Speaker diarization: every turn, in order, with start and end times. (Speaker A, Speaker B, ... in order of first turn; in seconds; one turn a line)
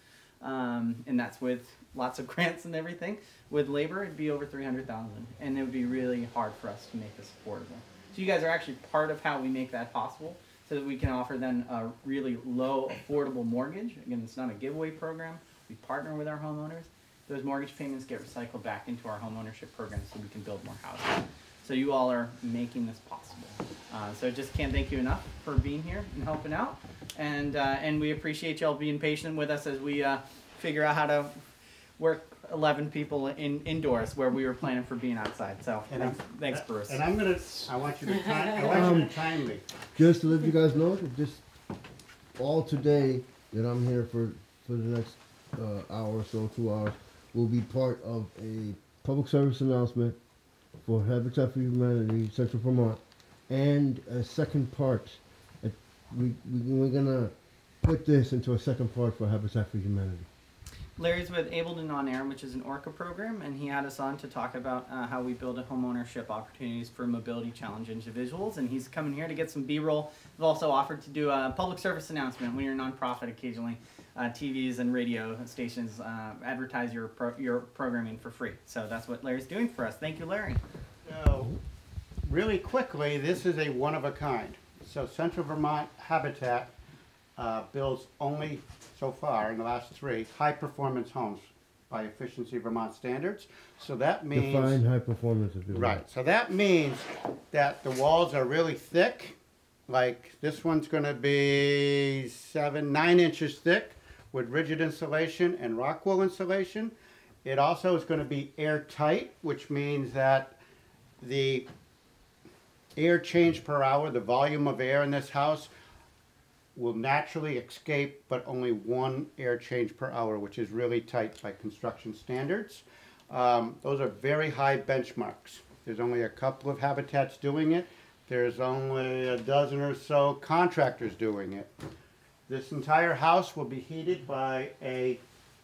Speaker A: 0.4-31.4
Speaker A: 32.0-37.0
Speaker B: 35.9-39.6
Speaker C: 38.7-39.2
Speaker C: 40.0-41.4
Speaker C: 42.4-50.2
Speaker C: 50.8-60.3
Speaker A: 61.0-80.6
Speaker B: 81.0-81.6
Speaker B: 82.2-86.7
Speaker B: 87.4-94.8
Speaker C: 94.3-96.0
Speaker B: 95.7-99.3
Speaker B: 99.9-110.6
Speaker B: 111.2-111.7
Speaker B: 113.0-115.7
Speaker B: 116.8-131.7
Speaker B: 132.5-135.2